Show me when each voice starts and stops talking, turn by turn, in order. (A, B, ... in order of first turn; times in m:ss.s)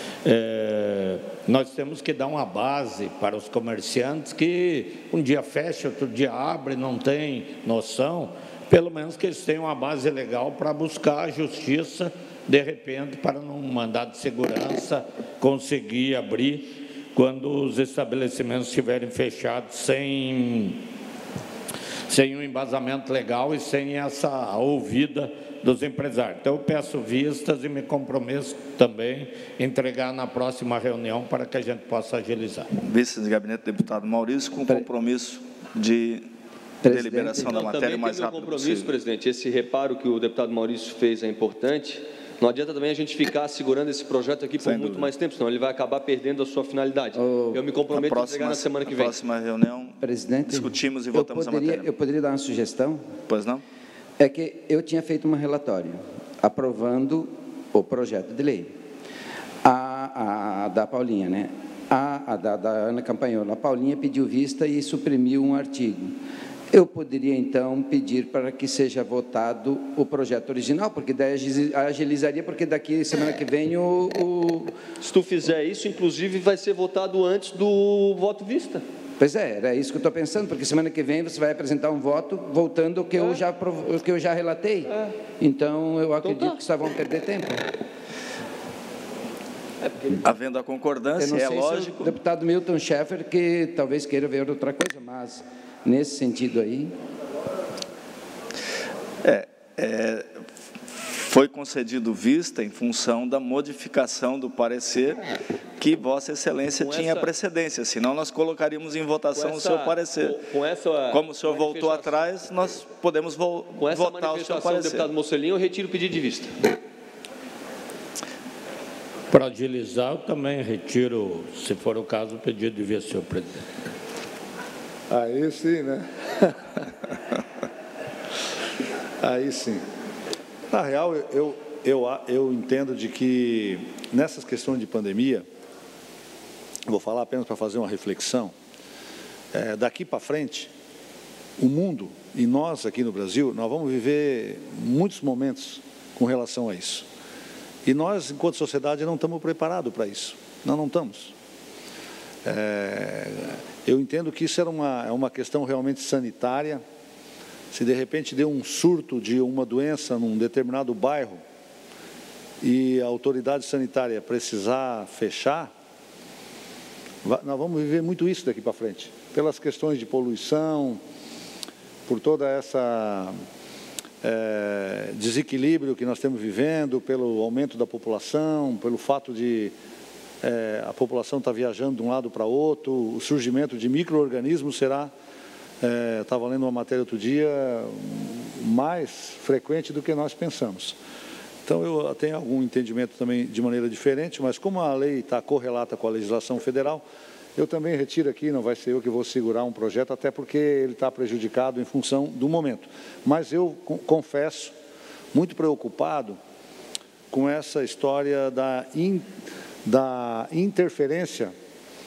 0:00.2-0:20.8 A
0:22.1-0:32.7 A
0:32.8-0:36.3 B
0:36.8-0:37.6 C
0:36.8-0:38.9 B
0:37.4-0:49.2 D
0:44.6-0:45.1 B
0:47.2-0:47.6 C
0:47.9-0:51.9 B
0:50.0-0:53.0 C
0:53.3-0:53.6 B
0:54.2-0:58.7 C
0:59.6-1:06.2 C
1:06.7-1:14.8 C
1:15.0-1:18.8 D
1:19.2-1:27.7 C
1:26.2-1:26.5 D
1:30.2-1:32.2 B
1:31.2-1:36.9 C
1:39.2-1:45.2 B
1:45.8-1:50.4 B
1:46.8-1:47.3 D
1:49.3-1:52.2 D
1:51.1-1:55.1 B
1:53.8-1:56.6 D
1:59.3-2:03.6 A
2:05.1-2:06.6 E
2:09.2-2:09.8 E
2:10.7-2:15.5 E
2:16.9-2:18.6 E
2:19.5-2:20.7 E
2:21.6-2:27.1 E
2:27.8-2:31.3 E
2:32.4-2:36.8 E
2:37.7-2:41.4 E
2:42.6-2:45.7 E
2:47.2-2:51.0 E
2:52.1-2:53.4 E
2:54.2-2:59.7 E
3:00.4-3:05.1 E
3:05.8-3:11.0 E
3:11.7-3:17.0 E
3:17.6-3:24.7 E
3:25.3-3:26.4 E
3:27.3-3:29.3 E
3:29.8-3:31.5 E